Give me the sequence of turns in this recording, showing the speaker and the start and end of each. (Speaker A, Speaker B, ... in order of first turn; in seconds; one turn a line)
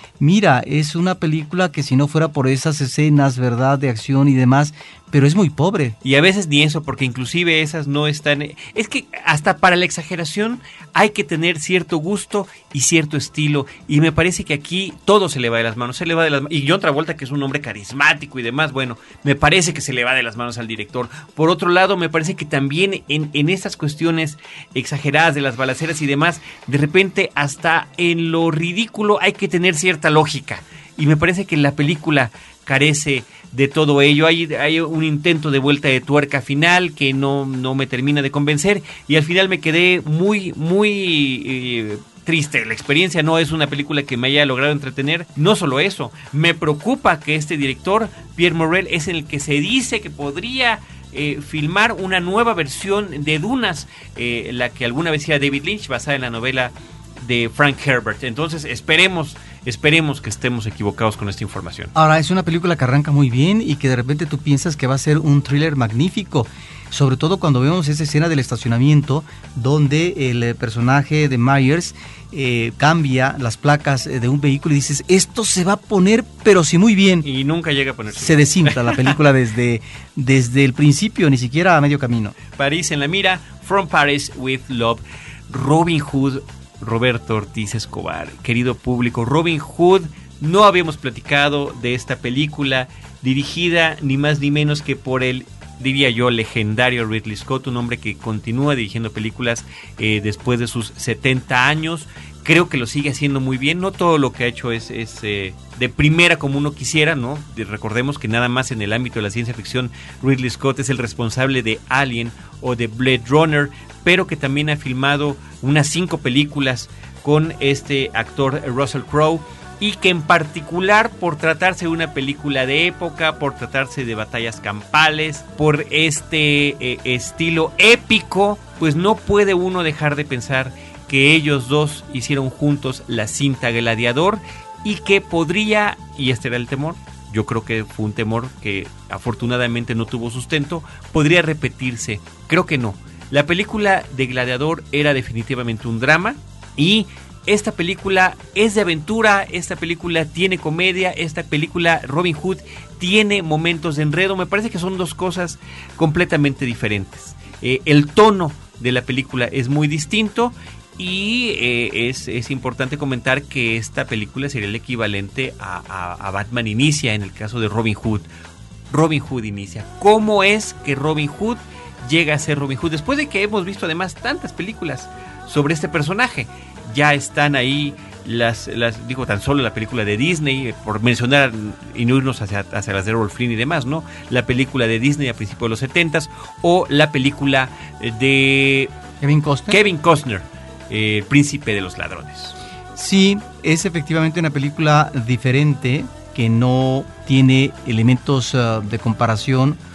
Speaker A: 0.2-6.0
Speaker B: 6.0-61.9
Speaker A: 61.9-77.3
Speaker B: 77.2-79.2
Speaker A: 78.1-82.3
Speaker B: 82.5-168.3
Speaker B: 168.9-188.9
Speaker A: 189.2-189.8
Speaker B: 189.7-192.6
Speaker A: 192.9-199.8